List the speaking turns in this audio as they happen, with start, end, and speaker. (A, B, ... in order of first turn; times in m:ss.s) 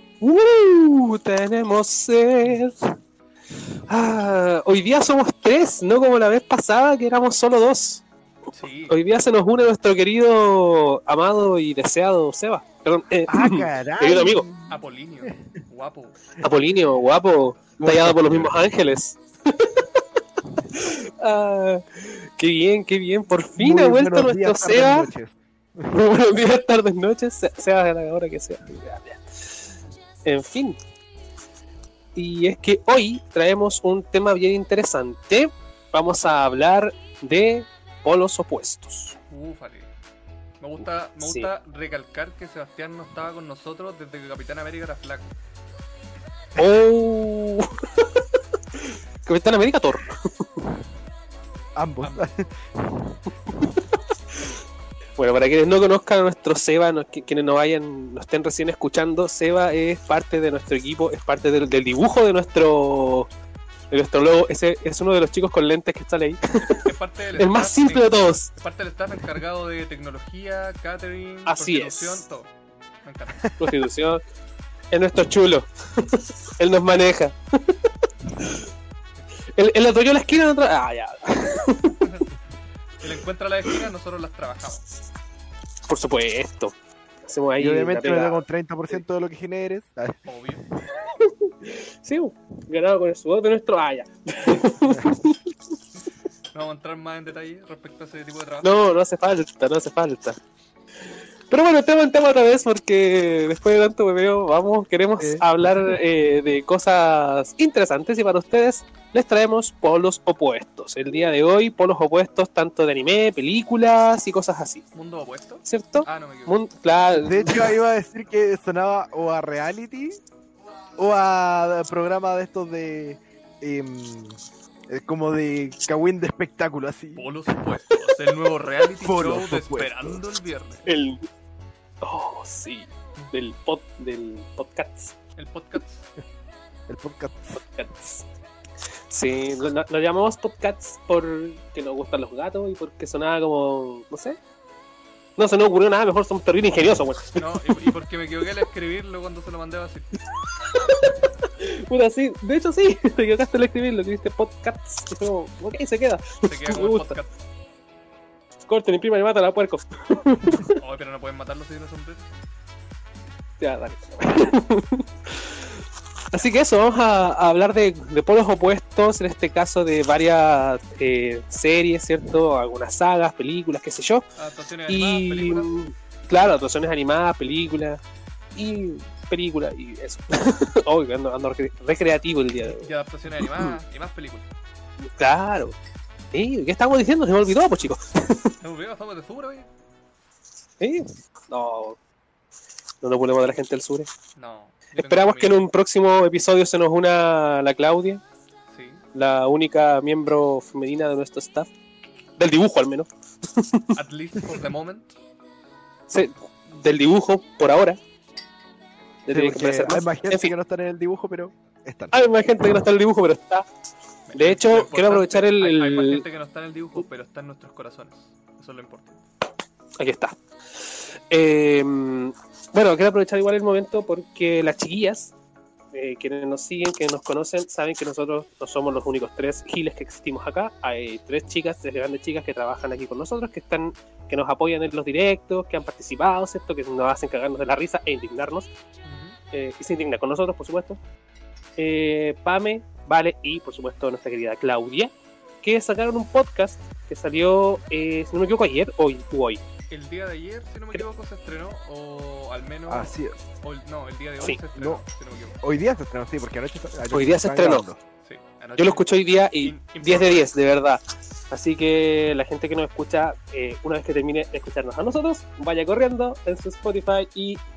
0:00.2-0:02.9 A
0:03.9-0:08.0 A
0:08.5-0:09.0 B
0:08.9-0:14.5 A
0:13.3-0:15.6 C
0:14.7-0:16.2 B
0:16.4-0:20.0 A
0:17.8-0:18.6 C
0:20.7-0:25.1 A
0:23.6-0:25.9 C
0:25.9-0:30.8 A
0:32.2-0:39.2 A
0:39.3-0:39.9 B
0:40.6-0:45.3 B
0:41.2-0:41.5 A
0:46.6-0:48.2 A
0:48.8-0:50.4 A
0:51.8-0:53.2 C
0:52.0-0:52.3 B
0:55.2-1:03.3 A
1:03.9-1:06.8 A
1:06.6-1:12.5 B
1:07.4-1:08.5 A
1:11.5-1:12.2 A
1:13.0-1:13.5 B
1:13.6-1:14.2 A
1:14.9-1:18.6 A
1:19.6-1:22.0 A
1:22.0-1:22.3 B
1:23.0-1:24.8 B
1:25.9-1:26.7 A
1:27.3-1:28.4 A
1:27.6-1:30.2 C
1:30.3-1:30.6 B
1:30.8-1:35.5 A
1:36.5-1:38.8 B
1:38.6-1:40.4 A
1:41.5-1:54.8 A
1:45.2-1:45.4 C
1:54.9-1:56.6 B
1:55.6-1:57.7 A
1:57.2-2:00.2 C
2:01.0-2:07.3 C
2:07.2-2:10.9 B
2:09.0-2:10.2 C
2:10.9-2:11.3 A
2:12.0-2:15.2 A
2:15.4-2:16.1 B
2:16.9-2:17.6 C
2:17.6-2:18.2 A
2:19.1-2:24.4 A
2:25.4-2:27.8 A
2:27.4-2:30.1 B
2:30.3-2:37.2 A
2:36.5-2:37.3 B
2:38.7-2:40.8 A
2:40.6-2:42.3 B
2:43.6-2:54.3 A
2:54.4-2:55.8 B
2:54.9-2:58.0 A
2:58.6-3:03.8 A
3:02.6-3:04.5 B
3:05.2-3:05.8 A
3:06.3-3:08.6 A
3:08.6-3:09.7 B
3:10.8-3:12.0 A
3:13.0-3:14.1 A
3:14.4-3:15.6 B
3:14.9-3:18.2 A
3:18.7-3:19.0 B
3:19.1-3:21.7 A
3:22.4-3:24.0 A
3:24.0-3:25.2 B
3:26.1-3:28.0 A
3:29.3-3:30.6 A
3:29.3-3:32.1 C
3:32.1-3:33.7 A
3:34.3-3:39.2 B
3:34.4-3:36.2 A
3:40.0-3:45.3 A
3:45.9-3:58.7 A
3:59.0-3:59.4 B
3:59.5-4:01.0 A
4:01.8-4:09.6 A
4:09.9-4:15.6 B
4:12.9-4:13.4 C
4:14.8-4:15.0 C
4:15.6-4:18.0 C
4:17.1-4:17.9 A
4:18.2-4:20.5 B
4:18.8-4:27.6 A